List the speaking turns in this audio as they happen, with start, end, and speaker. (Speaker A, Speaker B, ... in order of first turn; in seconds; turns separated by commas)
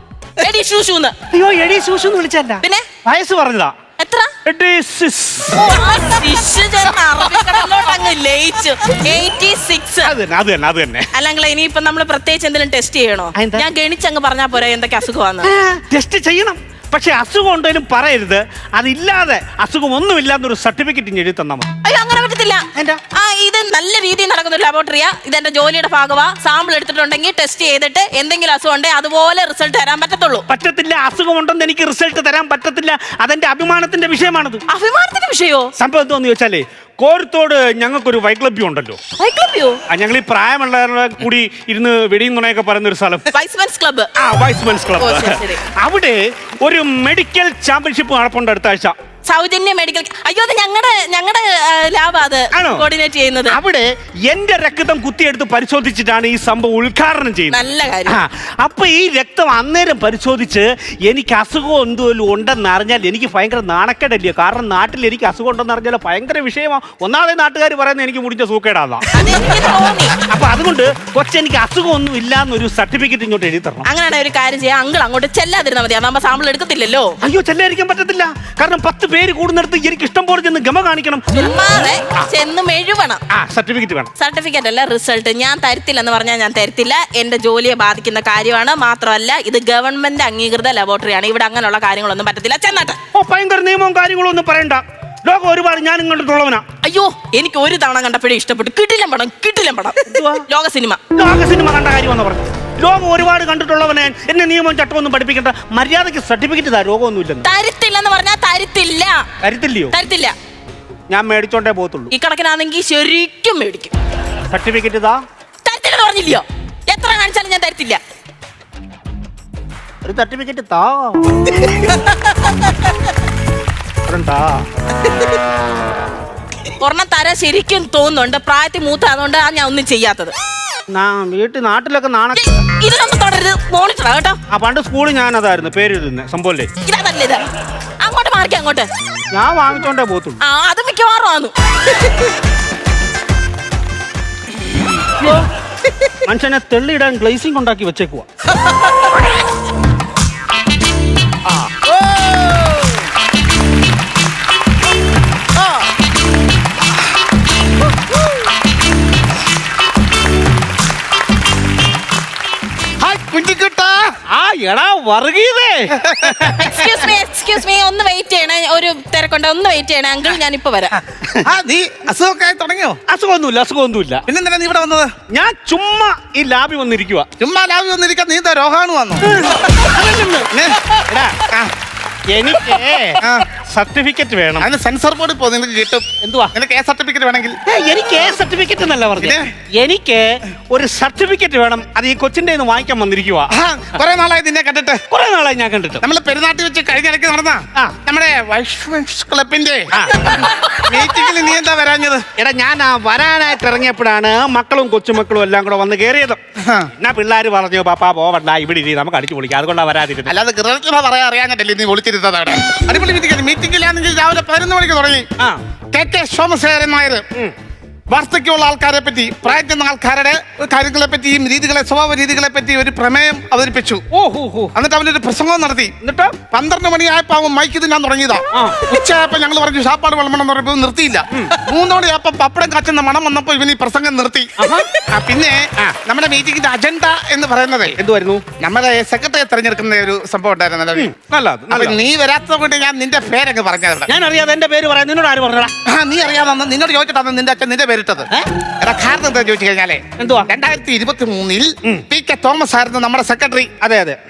Speaker A: 0.4-1.1, Speaker B: 1.3-3.7, Speaker A: 2.6-2.9, Speaker A: 4.0-4.3, Speaker B: 4.4-5.7, Speaker A: 5.5-10.1, Speaker B: 10.0-11.1, Speaker A: 11.1-15.5, Speaker B: 13.3-13.6, Speaker B: 15.4-21.7, Speaker A: 21.8-30.4, Speaker B: 22.7-23.0, Speaker B: 30.5-34.6, Speaker A: 34.7-35.7, Speaker B: 35.8-39.0, Speaker A: 39.2-39.8, Speaker B: 39.9-43.3, Speaker A: 43.3-44.1, Speaker B: 44.2-48.9, Speaker A: 45.0-45.6, Speaker A: 49.2-53.6, Speaker B: 52.5-52.9, Speaker B: 53.5-69.0, Speaker A: 57.5-58.2, Speaker A: 69.1-70.2, Speaker B: 70.3-73.9, Speaker A: 73.8-77.1, Speaker B: 77.2-81.3, Speaker A: 81.3-83.2, Speaker B: 83.3-84.1, Speaker A: 84.2-93.0, Speaker B: 93.1-96.6, Speaker A: 96.8-101.0, Speaker B: 100.0-100.4, Speaker B: 101.1-107.5, Speaker A: 107.4-109.3, Speaker B: 109.4-109.9, Speaker A: 109.9-110.3, Speaker B: 111.1-112.1, Speaker A: 112.1-113.9, Speaker B: 114.5-115.2, Speaker A: 115.6-118.0, Speaker B: 120.0-121.2, Speaker A: 121.7-122.5, Speaker B: 124.0-124.6, Speaker A: 126.8-130.3, Speaker B: 130.9-132.4, Speaker A: 132.3-134.4, Speaker B: 134.5-136.7, Speaker A: 136.8-137.4, Speaker A: 138.0-138.9, Speaker B: 139.3-140.4, Speaker A: 140.4-142.1, Speaker A: 145.1-145.5, Speaker B: 146.2-148.2, Speaker C: 163.0-164.1, Speaker B: 164.3-166.7, Speaker C: 166.0-166.5, Speaker A: 166.6-170.9, Speaker B: 171.1-171.4, Speaker C: 171.4-173.0, Speaker B: 173.1-174.2, Speaker C: 174.3-175.1, Speaker B: 175.3-177.3, Speaker C: 177.4-179.4, Speaker B: 179.2-181.4, Speaker B: 182.3-184.7, Speaker C: 183.2-183.5, Speaker C: 184.6-187.6, Speaker B: 186.2-186.5, Speaker B: 187.7-193.5, Speaker C: 189.2-189.5, Speaker C: 193.5-195.0, Speaker B: 195.1-196.0, Speaker C: 196.0-202.3, Speaker B: 199.9-200.5, Speaker B: 202.4-206.4, Speaker C: 206.6-206.9, Speaker B: 206.9-210.3, Speaker C: 210.3-215.2, Speaker C: 215.9-217.2, Speaker C: 218.1-224.0, Speaker B: 224.1-224.7, Speaker C: 224.7-225.9, Speaker B: 226.0-226.4, Speaker C: 226.5-237.9, Speaker B: 228.5-228.8, Speaker B: 231.3-231.6, Speaker B: 234.6-234.9, Speaker B: 238.0-238.4, Speaker C: 238.6-241.1, Speaker B: 240.9-242.0, Speaker C: 241.7-244.1, Speaker B: 244.1-245.7, Speaker C: 245.8-248.3, Speaker C: 248.8-253.7, Speaker B: 250.2-250.5, Speaker B: 253.8-254.2